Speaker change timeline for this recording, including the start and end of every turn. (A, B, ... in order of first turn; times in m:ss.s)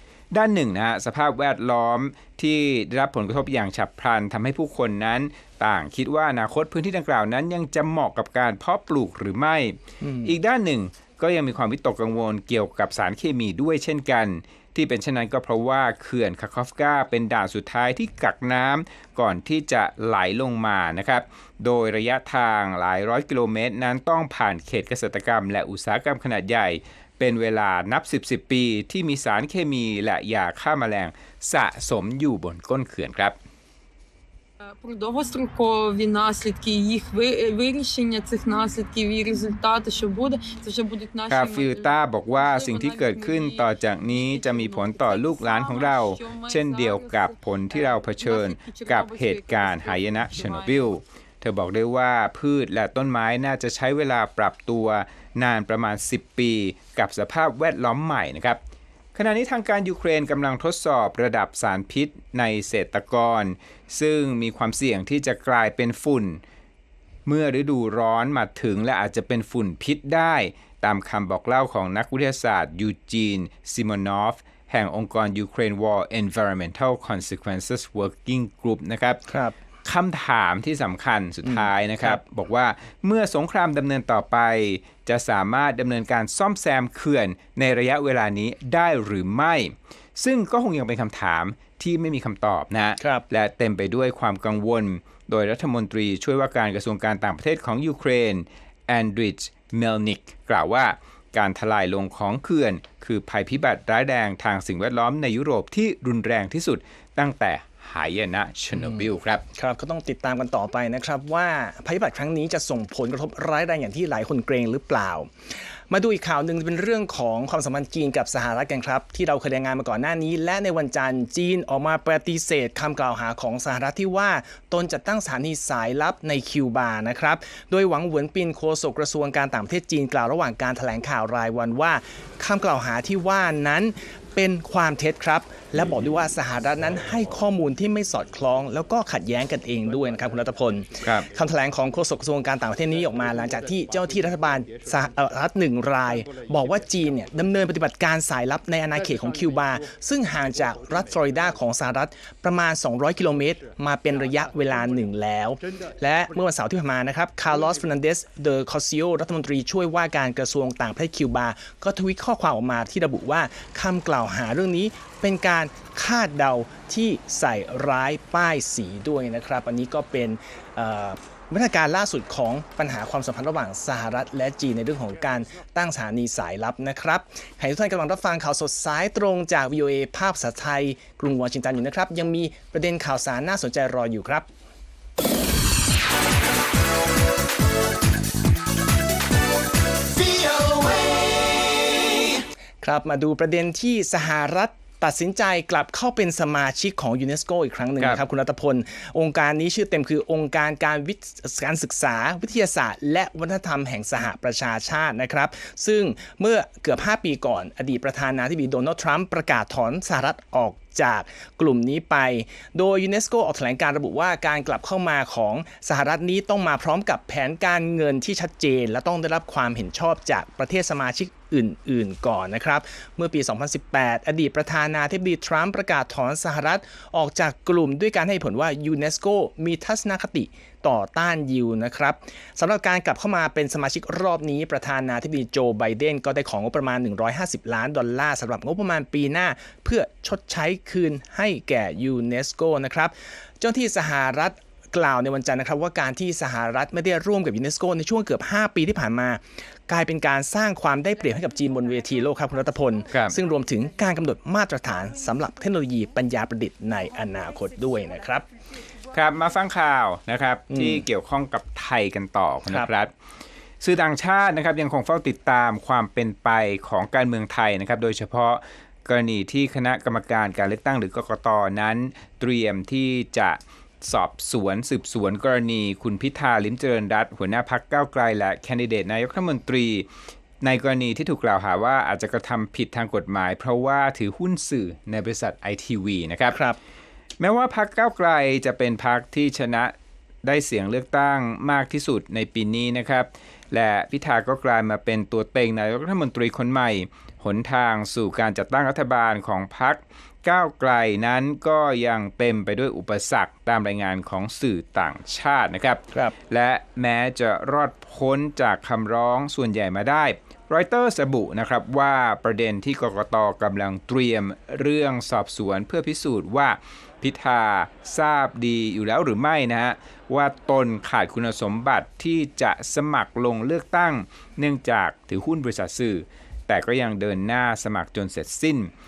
0:00.3-0:33.4 A
0:10.0-0:10.3 B
0:34.6-0:51.0 C
0:41.3-0:58.6 A
0:59.2-1:06.4 A
1:07.3-1:19.2 A
1:19.3-1:19.6 B
1:19.8-1:49.4 A
1:21.4-1:22.2 B
1:33.0-1:33.2 B
1:48.7-1:55.3 B
1:55.9-3:04.5 B
3:12.8-4:18.5 B
4:13.1-4:13.4 A
4:19.1-4:23.1 A
4:20.7-4:21.1 B
4:23.8-4:40.1 A
4:40.6-4:46.6 A
4:46.5-4:46.8 B
4:47.4-5:28.9 A